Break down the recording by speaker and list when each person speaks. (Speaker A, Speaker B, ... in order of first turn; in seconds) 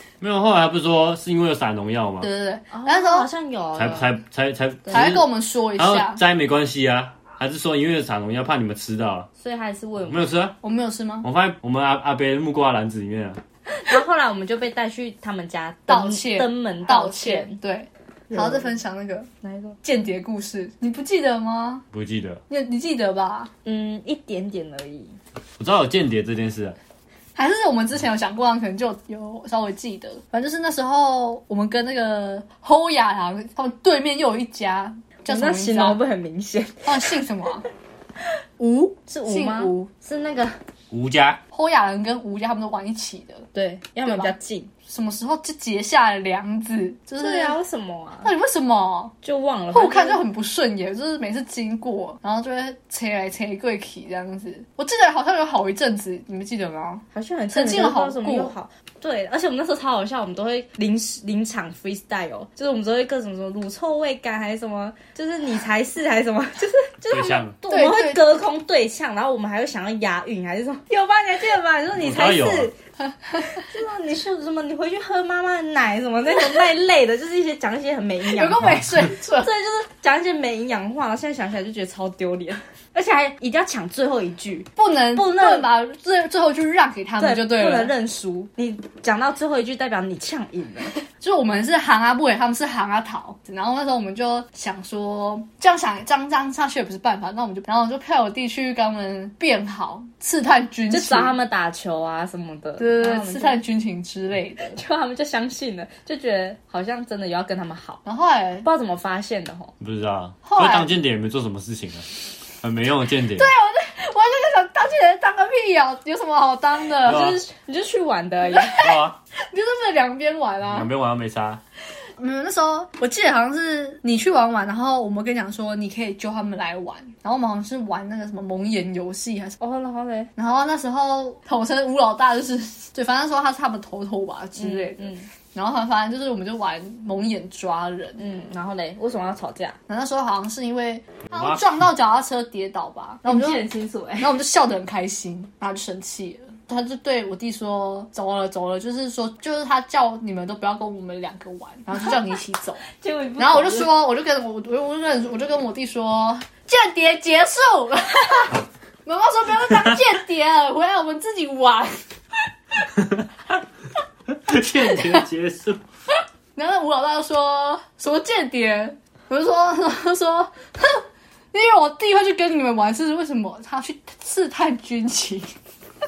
Speaker A: 0.2-2.3, 3.8-5.2, 5.8-9.3, 10.0-10.6, 11.2-13.4, 21.9-22.4, 25.6-26.8, 40.9-41.4, 67.1-67.6, 71.9-72.7, 78.6-79.1, 109.8-112.1, 112.6-113.5, 117.0-117.4, 118.8-119.2, 120.7-121.6, 141.3-141.8, 164.5-165.8
Speaker B: 2.2-3.3, 4.9-6.2, 10.6-11.3, 15.9-19.3, 19.8-21.9, 22.5-23.5, 27.4-36.0, 36.8-37.7, 38.6-39.9, 41.5-43.5, 44.0-44.3, 44.9-47.6, 48.2-49.1, 49.7-58.5, 67.7-68.4, 73.1-73.6, 78.3-79.5, 84.8-87.9, 91.2-101.4, 102.8-104.8, 108.0-108.7, 110.5-111.0, 113.3-117.3, 118.5-120.9, 122.2-129.6, 130.4-138.2, 139.9-143.6, 144.2-152.8, 153.4-162.0, 166.6-175.5
Speaker C: 2.7-4.2, 9.4-10.3, 13.7-17.6, 18.3-18.7, 19.4-19.8, 23.6-25.2, 35.3-37.2, 39.1-40.6, 43.5-44.7, 47.2-48.3, 49.2-50.2, 57.1-72.7, 73.6-78.7, 79.3-85.7, 87.2-91.0, 100.9-103.6, 104.6-108.0, 108.6-109.7, 117.0-118.9, 129.6-130.3, 134.6-135.3, 138.2-139.8, 143.2-144.4, 153.0-154.0